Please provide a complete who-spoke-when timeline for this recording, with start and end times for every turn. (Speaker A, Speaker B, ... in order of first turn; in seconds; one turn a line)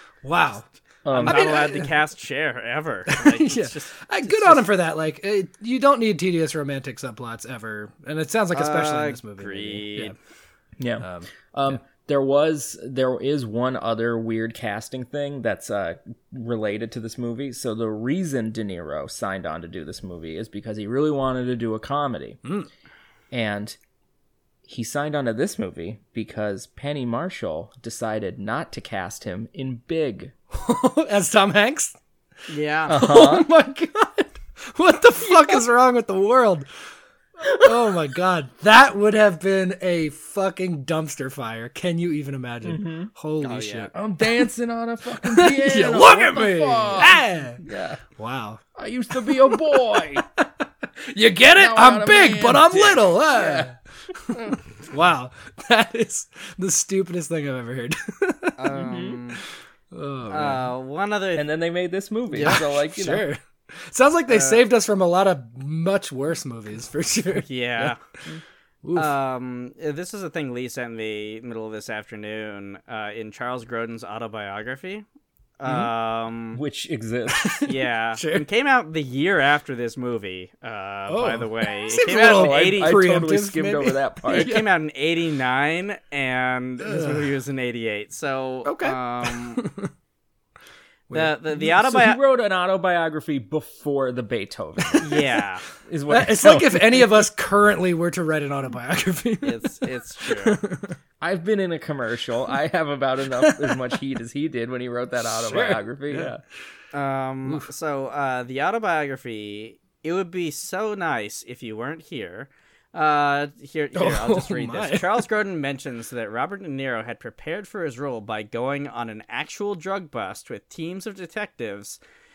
Speaker A: 0.2-2.0
Speaker B: 1.1-1.6
Speaker C: 1.1-4.7
Speaker A: 3.1-10.1
Speaker C: 8.5-10.2
Speaker B: 10.8-22.4
Speaker A: 11.0-11.3
Speaker B: 23.3-23.8
Speaker B: 24.7-30.3
Speaker A: 30.5-31.9
Speaker C: 32.5-33.0
Speaker B: 32.9-33.5
Speaker A: 32.9-36.7
Speaker B: 37.5-37.9
Speaker A: 37.6-44.5
Speaker B: 42.6-43.1
Speaker C: 43.4-43.9
Speaker B: 43.9-48.0
Speaker A: 45.2-47.6
Speaker A: 48.1-48.6
Speaker B: 48.8-50.2
Speaker A: 49.1-50.5
Speaker A: 51.1-53.8
Speaker B: 51.5-53.7
Speaker A: 54.3-58.7
Speaker C: 58.6-59.4
Speaker B: 58.7-59.2
Speaker A: 59.9-60.7
Speaker C: 60.3-61.5
Speaker B: 61.4-63.3
Speaker C: 62.3-62.6
Speaker A: 62.4-67.9
Speaker C: 64.3-64.6
Speaker C: 67.4-68.0
Speaker A: 68.8-69.1
Speaker C: 68.9-75.1
Speaker C: 75.6-76.6
Speaker A: 75.7-75.9
Speaker B: 76.5-77.6
Speaker A: 77.3-78.5
Speaker C: 77.7-83.0
Speaker A: 81.1-84.7
Speaker B: 82.3-84.6
Speaker C: 84.3-89.7
Speaker A: 86.8-87.3
Speaker A: 88.7-89.9
Speaker A: 91.1-91.5
Speaker C: 91.1-92.2
Speaker B: 91.5-95.2
Speaker A: 94.8-95.2
Speaker C: 95.0-95.6
Speaker B: 95.9-97.1
Speaker A: 96.1-101.0
Speaker C: 99.4-100.6
Speaker B: 101.2-106.4
Speaker A: 103.4-103.8
Speaker A: 105.2-106.3
Speaker C: 106.9-122.0
Speaker A: 114.0-115.3